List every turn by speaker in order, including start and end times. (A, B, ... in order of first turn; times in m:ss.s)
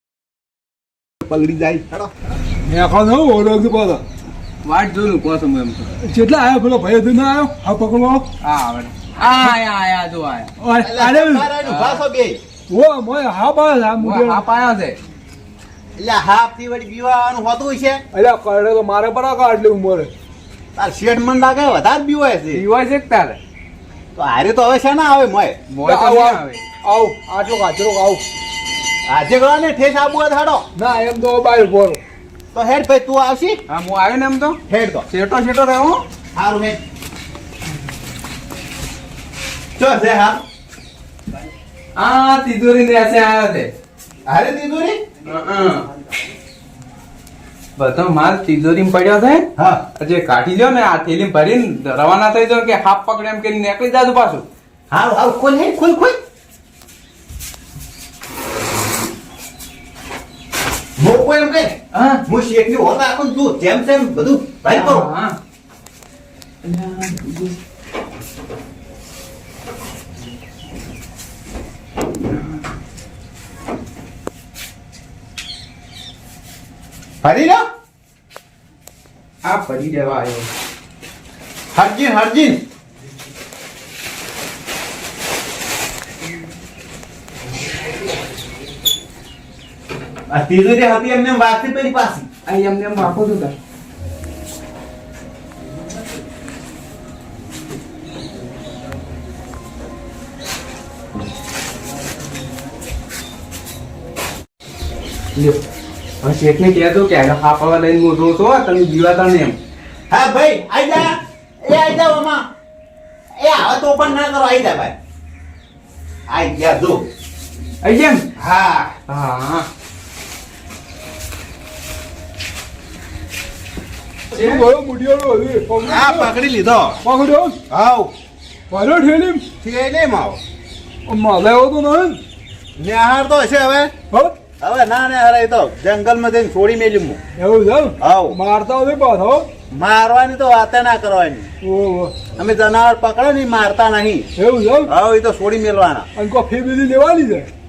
0:01.2-0:02.1 A
0:02.6-0:04.0 B
0:04.6-0:05.9 C
0:06.0-0:08.3 B
0:08.4-0:10.5 C
0:09.3-0:09.6 B
0:10.6-0:11.5 B
0:10.8-0:12.4 A
0:11.6-0:12.0 C
0:12.7-0:14.5 B
0:14.0-0:15.0 C
0:16.0-0:18.0 A
0:18.1-0:20.1 B
0:20.8-0:22.6 A
0:22.5-0:23.4 C
0:24.1-0:25.6 A
0:25.7-0:26.6 C
0:25.8-0:28.2 B
0:29.1-0:30.6 A
0:30.8-0:32.0 B
0:32.5-0:33.6 A
0:33.7-0:34.6 C
0:34.7-0:35.0 A
0:35.1-0:36.0 C
0:36.3-0:36.8 A
0:39.8-0:40.4 A
0:42.0-0:43.7 C
0:44.3-0:45.0 A
0:45.3-0:45.8 C
0:47.8-0:49.5 C
0:50.0-0:54.4 C
0:54.9-0:56.2 A
1:01.0-1:01.7 A
1:02.0-1:02.2 C
1:02.3-1:05.1 A
1:04.7-1:05.3 C
1:06.6-1:07.5 C
1:17.2-1:17.6 A
1:19.4-1:20.5 C
1:21.7-1:22.6 A
1:30.3-1:32.3 A
1:32.5-1:33.5 C
1:46.2-1:49.6 C
1:50.1-1:52.4 A
1:53.4-1:54.9 A
1:56.3-1:57.1 A
1:57.8-1:58.2 C
1:58.4-1:59.0 A
1:59.1-1:59.7 C
2:04.3-2:06.3 B
2:05.8-2:07.0 A
2:07.0-2:07.6 B
2:07.7-2:08.1 A
2:08.7-2:09.4 B
2:09.6-2:10.4 A
2:11.1-2:12.2 B
2:12.8-2:13.9 A
2:14.6-2:17.2 A
2:17.4-2:19.5 B
2:18.0-2:18.4 A
2:19.7-2:21.5 A
2:21.6-2:22.2 B
2:22.4-2:24.2 A
2:24.4-2:24.9 B
2:24.9-2:26.1 A
2:26.2-2:27.5 B